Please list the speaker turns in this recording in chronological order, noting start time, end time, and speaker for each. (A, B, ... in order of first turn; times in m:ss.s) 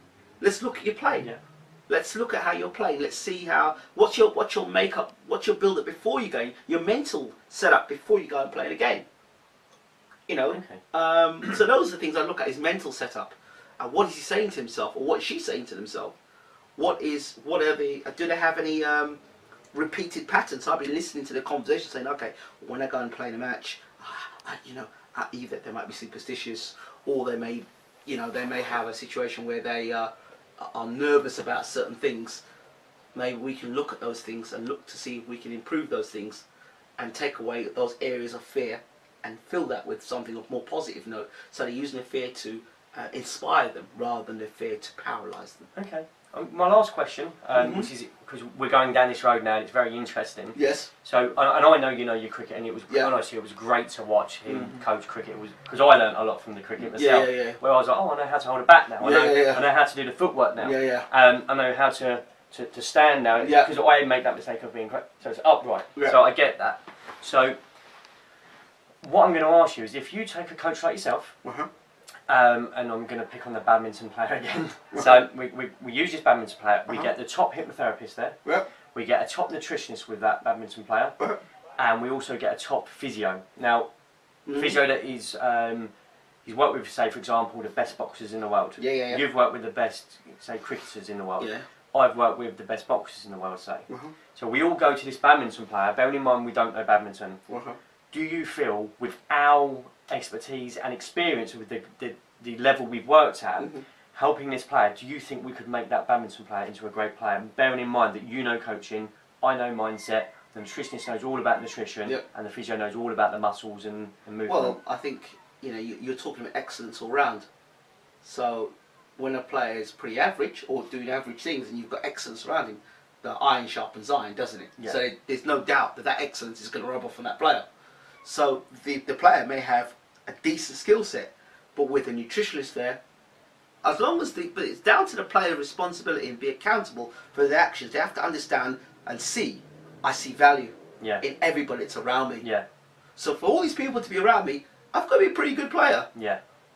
0:00.4-0:01.3 A
0:01.9-0:09.0 A
0:10.3-0:16.2 A
0:10.5-0:10.8 B
0:16.8-0:19.2 A
0:19.7-0:32.4 A
0:33.1-0:36.4 A
0:37.0-0:45.7 A
0:45.8-1:07.6 B
0:47.5-0:47.9 A
0:50.6-0:50.9 A
0:52.9-0:53.1 A
0:54.4-0:54.8 A
0:56.8-0:57.6 A
0:59.0-0:59.7 A
1:00.6-1:01.1 A
1:03.4-1:03.7 A
1:09.0-1:11.4 B
1:11.4-1:11.7 A
1:12.3-1:18.4 B
1:14.9-1:15.2 A
1:18.9-1:21.2 B
1:21.8-1:23.9 B
1:24.5-1:24.8 A
1:24.5-1:25.9 B
1:26.4-1:37.4 B
1:28.8-1:29.2 A
1:31.4-1:31.7 A
1:33.9-1:34.2 A
1:37.5-1:37.8 A
1:38.1-1:54.8 B
1:43.6-1:43.8 A
1:54.5-1:57.5 A
1:58.2-2:07.7 A
2:08.2-2:13.0 A
2:13.8-2:22.4 A
2:23.2-2:26.1 A
2:26.2-2:26.4 B